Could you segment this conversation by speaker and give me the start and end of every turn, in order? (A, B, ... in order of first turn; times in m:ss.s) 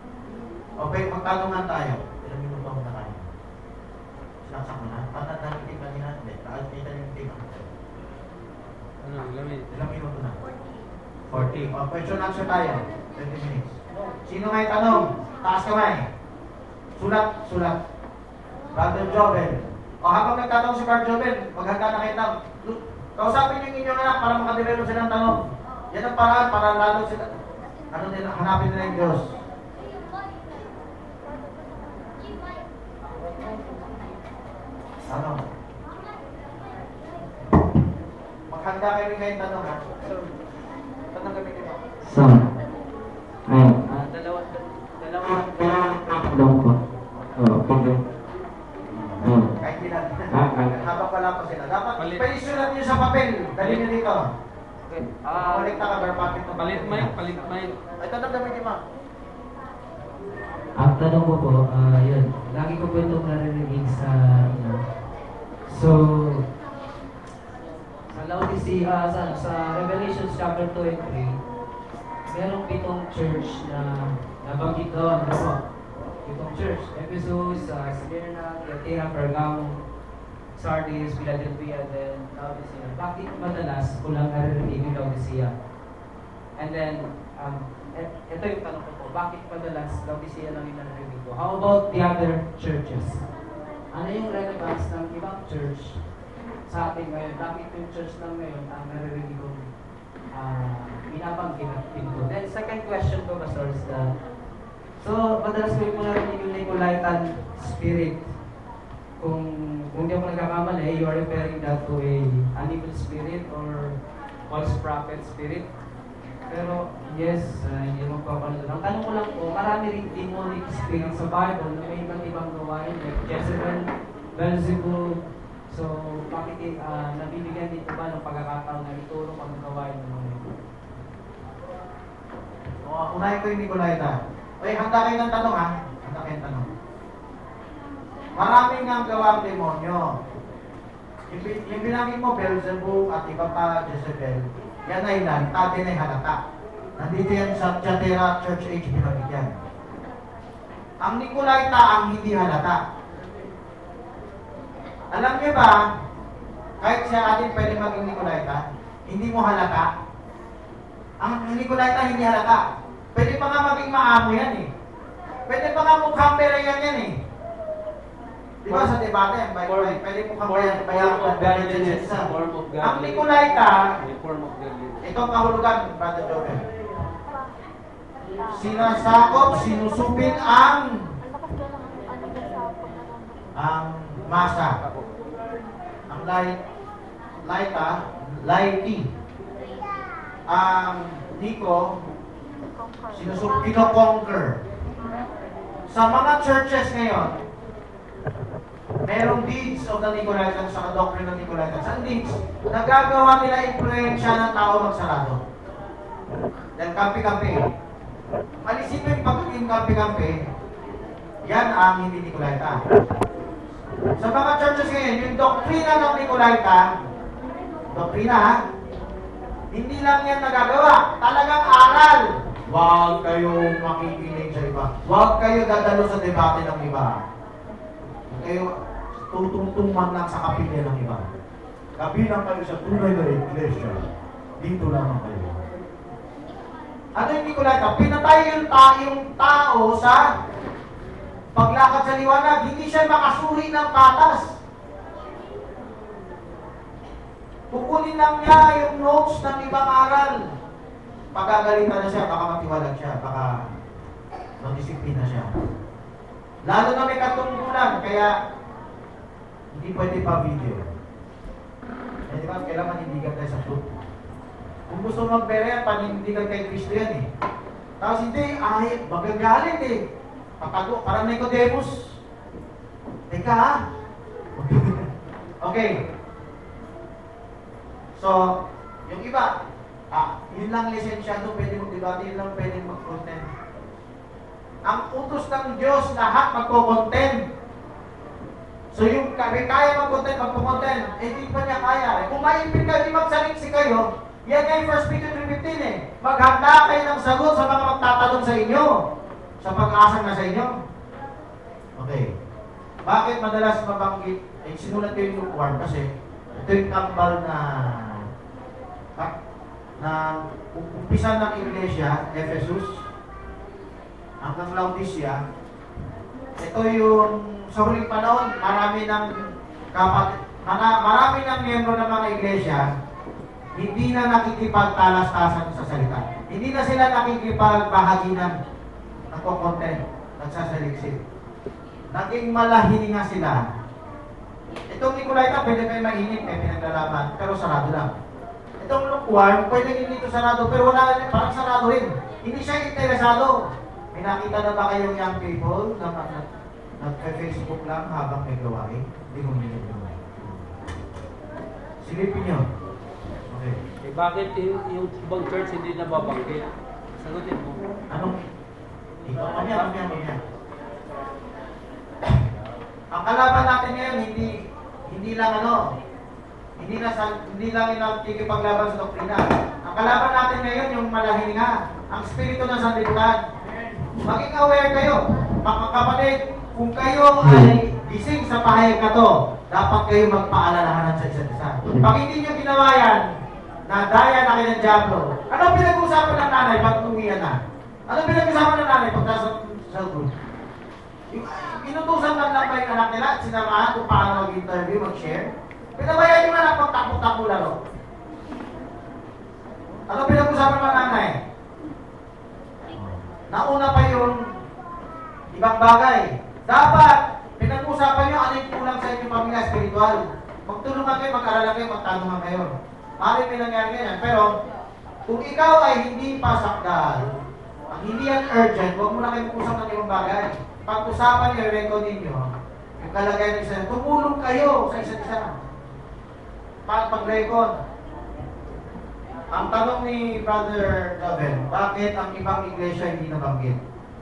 0:00.8-0:03.2 A
0:04.4-0:07.7 A
0:09.0-0:09.7 B
0:09.7-0:10.4 A
0:11.3-0:11.7 B
0:11.3-0:16.0 A
0:17.0-0:17.8 A
0:18.7-0:27.4 A
0:27.9-0:29.3 A
0:35.1-0:35.4 A
0:38.5-0:39.8 A
0:40.0-0:40.3 C
0:41.1-0:41.8 A
0:42.1-0:42.4 D
0:43.5-0:43.8 D
0:43.8-0:46.2 C
0:45.2-0:46.7 D
0:47.4-0:48.0 D
0:48.9-0:54.3 A
0:49.2-0:49.5 D
0:50.3-0:50.8 D
0:52.0-0:52.3 B
0:53.6-0:53.9 B
0:54.8-0:55.7 C
0:55.3-0:57.2 A
0:56.6-0:57.8 B
0:58.0-0:58.8 A
1:00.8-1:05.0 C
1:05.6-1:06.5 C
1:08.1-1:11.4 C
1:12.2-1:15.7 C
1:16.2-1:19.8 C
1:20.5-1:25.5 C
1:26.5-1:33.3 C
1:33.9-1:36.0 C
1:36.6-1:39.6 C
1:40.3-1:44.2 C
1:45.0-1:48.4 C
1:49.2-1:55.7 C
1:56.5-2:10.5 C
2:12.8-2:16.7 A
2:18.4-2:20.1 A
2:21.3-2:26.4 A
2:27.0-2:29.5 A
2:31.0-2:32.8 A
2:35.1-2:35.8 A
2:36.8-2:39.9 A
2:41.2-2:42.6 A
2:43.1-2:44.7 A
2:45.5-2:47.2 A
2:48.6-2:53.9 A
2:48.7-2:49.0 B
2:49.6-2:53.3 B
2:54.0-2:55.0 B
2:55.0-2:56.7 A
2:58.5-3:01.1 A
3:03.6-3:04.8 A
3:06.1-3:06.6 A
3:07.4-3:09.1 A
3:10.5-3:12.0 A
3:13.1-3:14.6 A
3:15.9-3:17.3 A
3:19.0-3:25.4 A
3:26.8-3:27.6 A
3:28.6-3:30.5 A
3:31.4-3:32.8 A
3:34.2-3:36.9 A
3:37.9-3:38.6 A
3:39.7-3:47.2 A
3:48.3-3:48.7 A
3:49.3-3:51.3 A
3:52.0-3:54.0 A
3:54.6-3:55.6 A
3:57.2-4:00.3 A
4:01.6-4:04.5 A
4:07.7-4:10.4 A
4:11.3-4:13.7 A
4:14.6-4:15.5 A
4:16.6-4:18.3 A
4:19.7-4:20.8 A
4:22.3-4:24.0 A
4:24.9-4:27.2 A
4:28.0-4:30.0 A
4:30.6-4:32.2 A
4:33.3-4:33.8 A
4:34.6-4:35.1 A
4:35.6-4:36.0 A
4:38.2-4:39.5 A
4:40.1-4:43.4 A
4:44.8-4:47.4 A
4:48.9-4:59.0 A
4:59.6-5:00.7 A
5:02.0-5:02.3 A
5:03.0-5:08.2 A
5:10.0-5:13.0 A
5:14.4-5:15.4 A
5:16.6-5:19.3 A
5:19.9-5:22.9 A
5:23.7-5:28.6 A
5:29.3-5:31.2 A
5:32.1-5:33.6 A
5:34.9-5:38.1 A
5:38.8-5:43.6 A
5:44.1-5:46.4 A
5:47.0-5:50.6 A
5:52.0-5:52.6 A
5:53.5-5:53.8 A
5:54.0-5:57.8 B
5:58.1-5:58.4 A
5:59.2-6:00.4 A
6:03.1-6:05.8 A
6:06.8-6:13.4 A
6:14.2-6:23.3 A
6:17.4-6:17.8 D
6:21.8-6:22.1 D
6:23.9-6:27.6 A
6:28.1-6:30.3 A
6:31.3-6:37.8 A
6:40.1-6:41.4 A
6:42.9-6:44.4 A
6:45.5-6:54.5 A
6:55.3-6:57.3 A
6:57.9-7:02.5 A
7:03.0-7:05.5 A
7:06.8-7:07.7 A
7:09.5-7:13.8 A